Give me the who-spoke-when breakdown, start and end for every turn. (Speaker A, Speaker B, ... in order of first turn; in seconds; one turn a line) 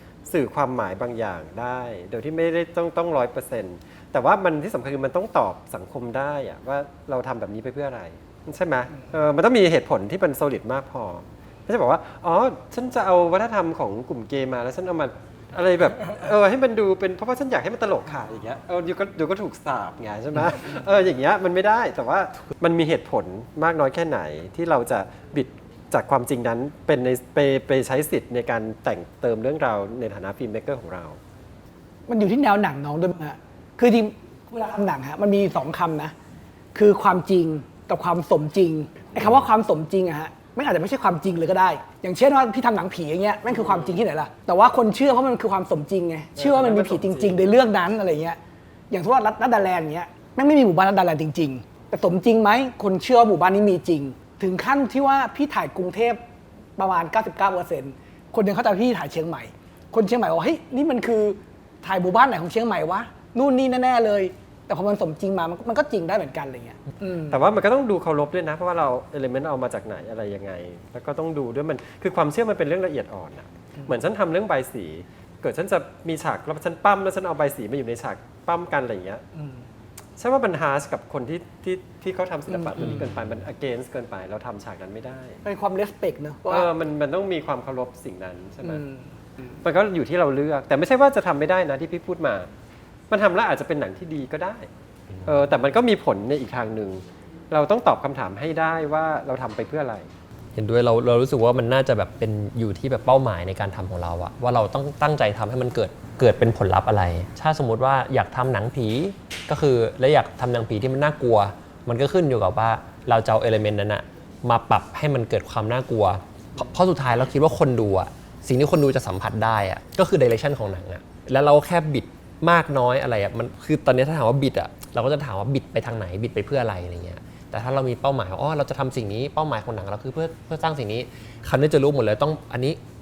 Speaker A: 0.2-31.2
Speaker B: 32.1-36.1
Speaker B: 36.7-48.4
Speaker A: 46.4-47.4
Speaker B: 48.9-56.2
Speaker B: 56.8-67.4
Speaker A: 67.3-79.2
Speaker A: 80.2-85.4
Speaker B: 85.4-86.7
Speaker A: 86.5-88.8
Speaker B: 88.7-89.0
Speaker A: 89.6-92.5
Speaker A: 93.1-94.7
Speaker A: 95.2-100.1
Speaker C: 100.5-132.8